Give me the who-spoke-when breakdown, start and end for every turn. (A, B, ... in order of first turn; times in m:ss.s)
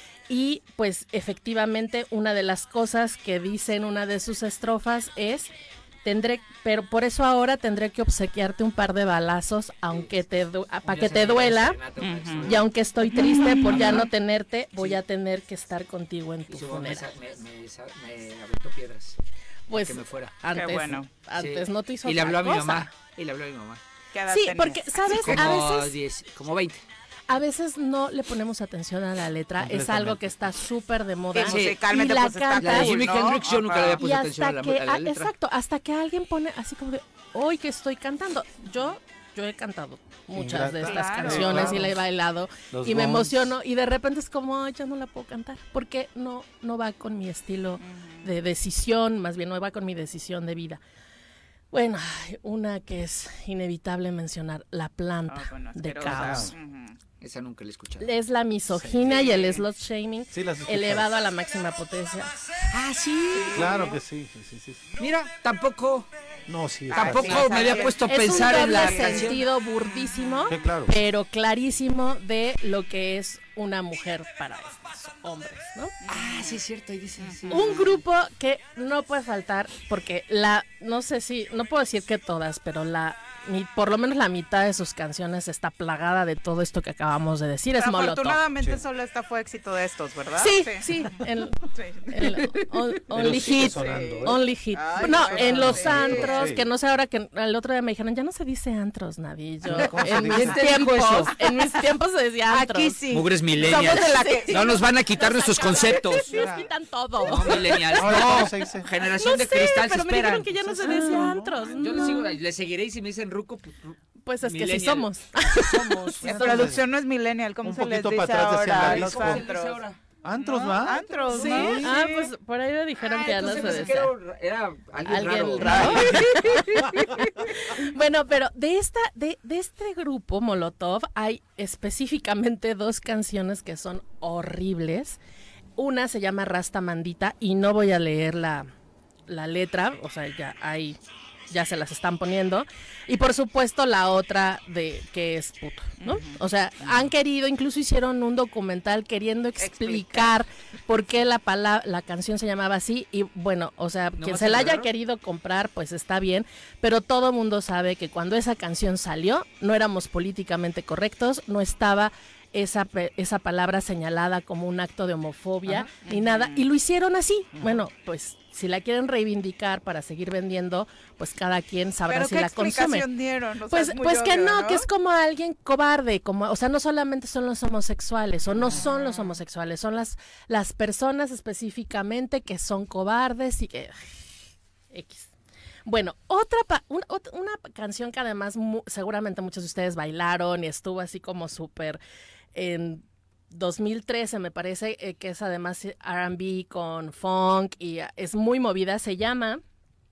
0:00.3-0:05.5 A
0:06.0-0:11.8 A
0:09.9-0:10.2 B
0:10.9-0:12.7 B
0:12.0-0:12.6 C
0:12.4-0:17.1 A
0:13.2-0:14.0 C
0:13.5-0:14.1 B
0:16.5-0:19.2 B
0:19.7-0:22.9 A
0:19.7-0:20.4 B
0:20.5-0:21.1 C
0:21.4-0:23.8 B
0:24.1-0:25.7 C
0:24.3-0:26.0 A
0:25.2-0:26.8 B
0:27.3-0:32.9 A
0:29.6-0:30.6 D
0:31.3-0:34.0 C
0:31.4-0:31.8 B
0:32.6-0:35.3 B
0:34.0-0:50.8 A
0:40.4-0:42.0 D
0:40.8-0:41.8 C
0:42.7-0:43.5 D
0:47.8-0:48.3 C
0:51.7-0:56.5 A
0:55.3-0:57.0 C
0:56.0-0:56.5 D
0:57.2-0:58.1 B
0:58.0-1:02.4 A
0:58.7-0:59.3 D
0:59.2-0:59.6 C
1:00.3-1:01.1 D
1:02.7-1:03.9 B
1:03.5-1:05.0 D
1:05.0-1:06.1 B
1:06.5-1:07.5 D
1:06.9-1:10.5 C
1:06.9-1:09.4 B
1:07.3-1:16.0 A
1:10.5-1:10.9 D
1:16.0-1:16.6 C
1:16.1-1:17.9 B
1:17.2-1:18.0 C
1:17.5-1:28.4 A
1:27.8-1:30.9 C
1:30.4-1:43.0 A
1:31.7-1:32.6 C
1:33.1-1:34.4 D
1:33.4-1:33.7 B
1:33.6-1:36.5 C
1:35.0-1:36.7 D
1:35.5-1:35.9 B
1:39.7-1:40.6 D
1:39.8-1:41.3 B
1:40.4-1:41.8 C
1:42.5-1:44.8 C
1:43.1-1:46.5 B
1:43.6-1:52.4 A
1:45.6-1:46.2 C
1:46.3-1:46.7 D
1:47.2-1:55.1 B
1:47.3-1:48.9 D
1:50.4-1:52.1 D
1:54.2-1:56.2 A
1:55.7-1:56.6 B
1:55.7-1:56.8 D
1:56.2-1:59.8 C
1:57.6-1:59.5 D
1:58.8-2:00.0 B
2:00.2-2:01.8 D
2:00.4-2:02.3 C
2:01.3-2:04.1 A
2:01.3-2:01.8 B
2:03.1-2:06.6 B
2:03.2-2:04.0 C
2:05.0-2:15.2 A
2:05.6-2:07.1 C
2:15.8-2:18.7 A
2:19.3-2:21.0 A
2:21.5-2:53.1 A
2:26.0-2:26.4 C
2:29.6-2:30.4 C
2:34.2-2:34.9 B
2:46.0-2:46.7 C
2:47.6-2:47.8 D
2:52.1-2:54.9 C
2:53.7-3:04.3 A
2:58.7-2:59.4 C
3:04.9-3:05.3 A
3:05.9-3:12.0 A
3:12.6-3:19.6 A